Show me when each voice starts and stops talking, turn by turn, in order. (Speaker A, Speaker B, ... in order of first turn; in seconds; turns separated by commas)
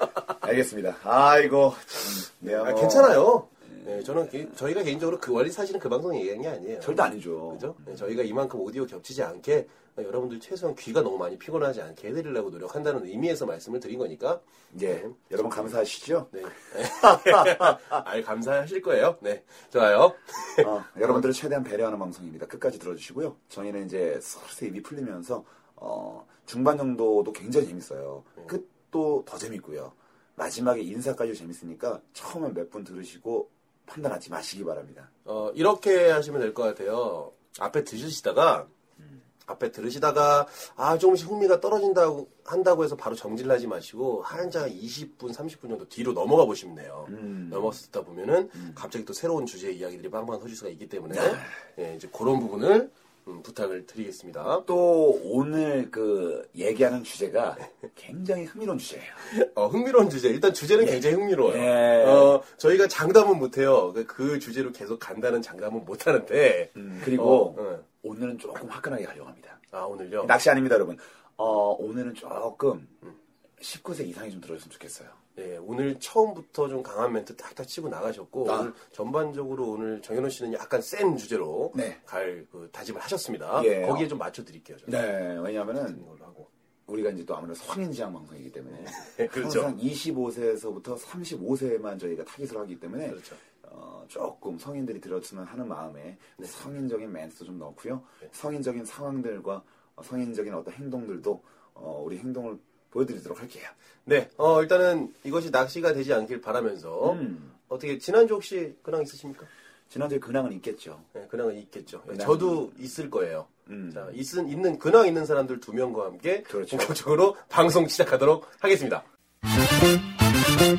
Speaker A: 0.4-4.1, Speaker B: 2.4-15.2, Speaker A: 6.8-8.0, Speaker A: 14.7-18.0, Speaker B: 16.3-21.2, Speaker A: 20.6-35.1, Speaker B: 35.2-38.7, Speaker B: 39.5-54.7, Speaker A: 47.1-47.8, Speaker A: 51.1-51.5, Speaker A: 54.6-59.2, Speaker B: 59.2-67.8, Speaker A: 61.4-62.3, Speaker A: 66.8-69.6, Speaker B: 69.7-70.3, Speaker A: 70.2-72.9, Speaker A: 73.6-75.2, Speaker B: 75.3-84.9, Speaker A: 78.4-78.7, Speaker A: 81.7-82.0, Speaker A: 83.5-84.1, Speaker A: 84.8-86.0, Speaker B: 86.0-86.5, Speaker A: 86.9-103.7, Speaker B: 88.7-89.7, Speaker B: 93.1-93.4, Speaker B: 104.0-109.5, Speaker A: 107.0-107.5, Speaker A: 109.9-111.1, Speaker B: 111.1-119.0, Speaker A: 112.1-112.8, Speaker A: 113.7-114.1, Speaker A: 116.5-117.0